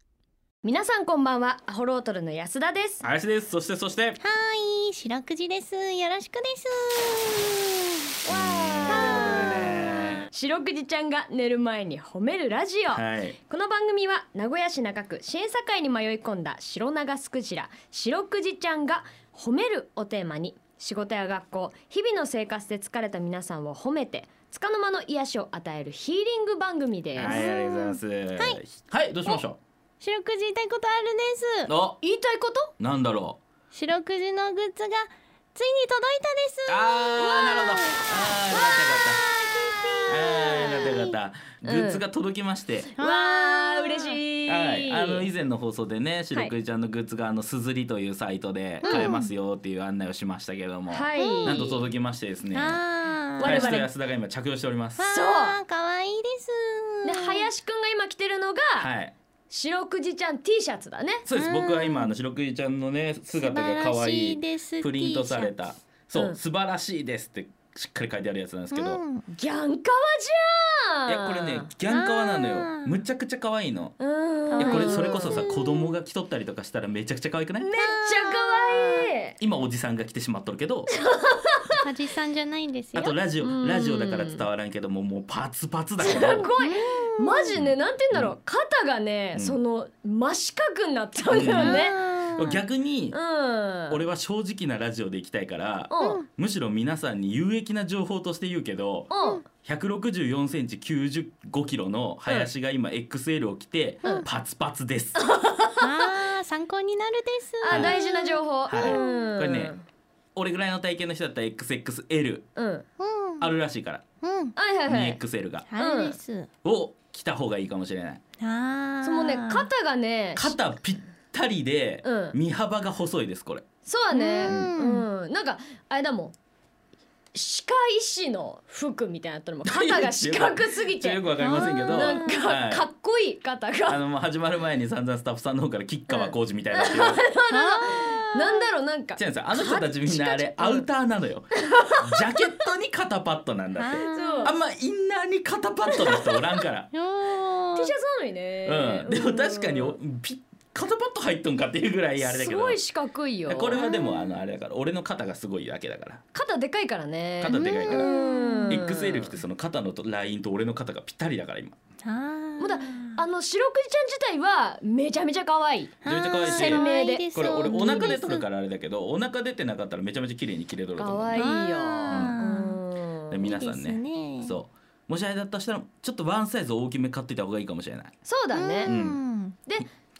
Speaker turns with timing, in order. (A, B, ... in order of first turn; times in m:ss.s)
0:00.6-0:03.0 A
0:03.0-0:04.2 B
0:04.2-0:07.9 C
0:08.2-0:27.4 A
0:08.3-0:10.3 B
0:08.9-0:10.3 C
0:12.9-0:13.4 B
0:27.2-0:28.6 C
0:27.2-0:29.6 B
0:30.0-0:31.7 C
0:31.6-0:32.0 B
0:32.0-0:32.7 A
0:32.8-0:33.4 B
0:33.7-0:40.7 C
0:36.7-0:39.2 B
0:39.8-0:41.1 A
0:40.1-0:42.9 B
0:41.6-0:42.0 A
0:43.0-0:44.2 C
0:43.0-0:45.3 A
0:44.5-0:52.8 B
0:48.8-0:49.3 C
0:48.8-0:49.1 A
0:50.9-0:51.8 A
0:51.2-0:51.7 C
0:52.5-0:53.8 C
0:53.4-0:53.9 A
0:53.4-0:55.0 B
0:55.0-0:57.5 C
0:55.0-0:55.6 A
0:57.0-0:58.9 A
0:58.8-0:59.1 B
0:59.5-1:01.2 A
1:01.2-1:09.0 B
1:01.3-1:02.1 C
1:03.3-1:05.5 C
1:08.7-1:09.2 C
1:09.3-1:11.7 A
1:11.0-1:14.0 B
1:11.9-1:13.0 C
1:14.0-1:15.4 A
1:14.5-1:15.9 C
1:14.6-1:17.7 B
1:17.6-1:19.4 A
1:17.8-1:19.1 C
1:19.4-1:20.9 B
1:21.0-1:21.8 A
1:21.8-1:23.1 C
1:22.9-1:26.5 B
1:23.4-1:24.5 A
1:26.0-1:32.0 A
1:26.6-1:27.5 C
1:27.5-1:28.3 B
1:31.3-1:33.2 B
1:31.4-1:32.6 C
1:33.1-1:34.0 A
1:33.9-1:45.3 B
1:35.9-1:36.2 A
1:39.1-1:39.4 A
1:45.2-1:46.1 A
1:45.8-1:49.3 C
1:47.6-1:49.8 A
1:47.7-1:47.9 B
1:48.7-1:49.7 B
1:50.4-1:52.4 B
1:52.6-1:52.8 A
1:53.0-1:53.5 C
1:53.4-1:54.0 B
1:54.2-1:54.6 C
1:54.6-1:55.2 A
1:54.9-1:55.7 B
1:55.7-1:56.5 C
1:55.8-1:56.2 A
1:56.6-1:58.2 B
1:58.4-1:59.7 C
1:59.0-2:00.6 A
2:00.4-2:03.6 B
2:02.0-2:02.4 A
2:03.8-2:06.3 A
2:04.1-2:05.0 C
2:04.4-2:04.7 B
2:07.3-2:14.0 A
2:09.6-2:12.9 B
2:11.4-2:12.4 C
2:13.9-2:17.2 B
2:16.1-2:20.9 A
2:17.5-2:18.7 C
2:19.2-2:26.9 B
2:21.7-2:22.0 A
2:23.8-2:24.5 C
2:24.0-2:24.5 A
2:25.9-2:26.6 A
2:26.9-2:27.9 C
2:27.8-2:30.0 A
2:28.6-2:32.8 B
2:32.2-2:33.8 A
2:33.5-2:36.2 B
2:33.7-2:34.4 C
2:36.3-2:39.4 A
2:37.4-2:38.1 B
2:37.5-2:38.8 C
2:38.7-2:41.8 B
2:42.0-2:43.2 C
2:42.6-2:48.2 A
2:46.0-2:48.4 C
2:46.0-2:51.5 B
2:50.9-2:53.5 A
2:51.3-2:52.8 C
2:52.1-2:52.3 B
2:53.3-2:58.1 B
2:53.4-2:54.6 C
2:58.2-2:58.9 A
2:58.5-2:59.6 C
2:58.8-2:59.2 B